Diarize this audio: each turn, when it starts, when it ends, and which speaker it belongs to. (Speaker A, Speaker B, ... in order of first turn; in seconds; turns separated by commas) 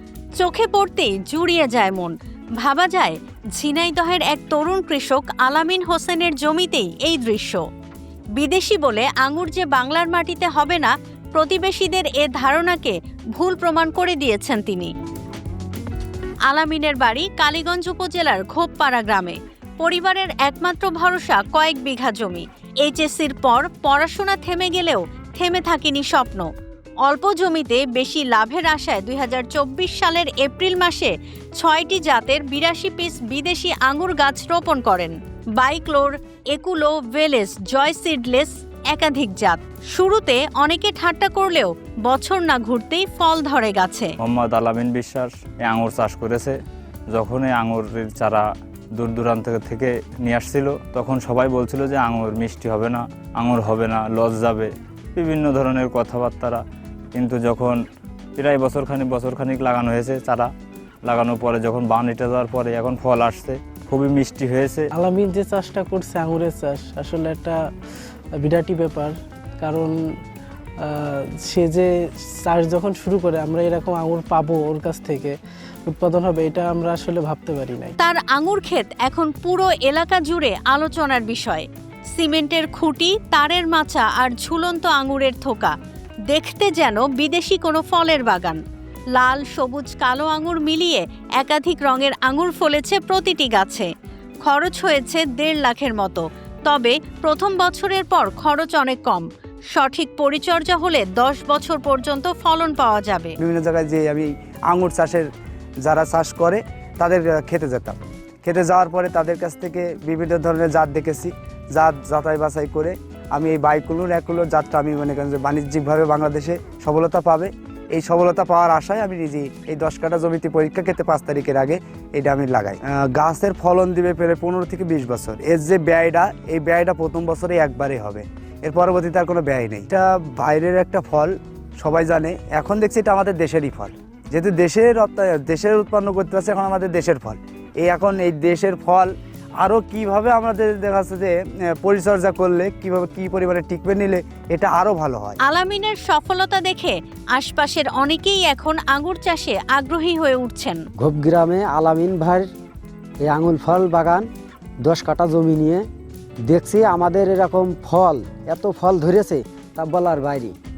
Speaker A: 0.4-7.6, Speaker A: 8.4-14.9, Speaker A: 16.5-26.5, Speaker A: 27.1-44.1, Speaker B: 44.2-46.6, Speaker B: 47.1-48.5, Speaker B: 49.0-56.6, Speaker B: 57.1-57.8, Speaker B: 58.4-60.5, Speaker B: 61.1-64.9, Speaker C: 64.9-67.6, Speaker C: 68.4-70.0, Speaker C: 70.8-75.4, Speaker C: 75.9-78.0, Speaker A: 78.0-85.7, Speaker A: 86.3-88.6, Speaker A: 89.2-93.9, Speaker A: 94.5-103.3, Speaker D: 103.4-105.3, Speaker D: 105.8-139.1, Speaker D: 139.6-145.4, Speaker A: 145.4-150.8, Speaker E: 151.0-152.5, Speaker E: 153.2-154.3, Speaker E: 154.9-155.8, Speaker E: 156.5-160.6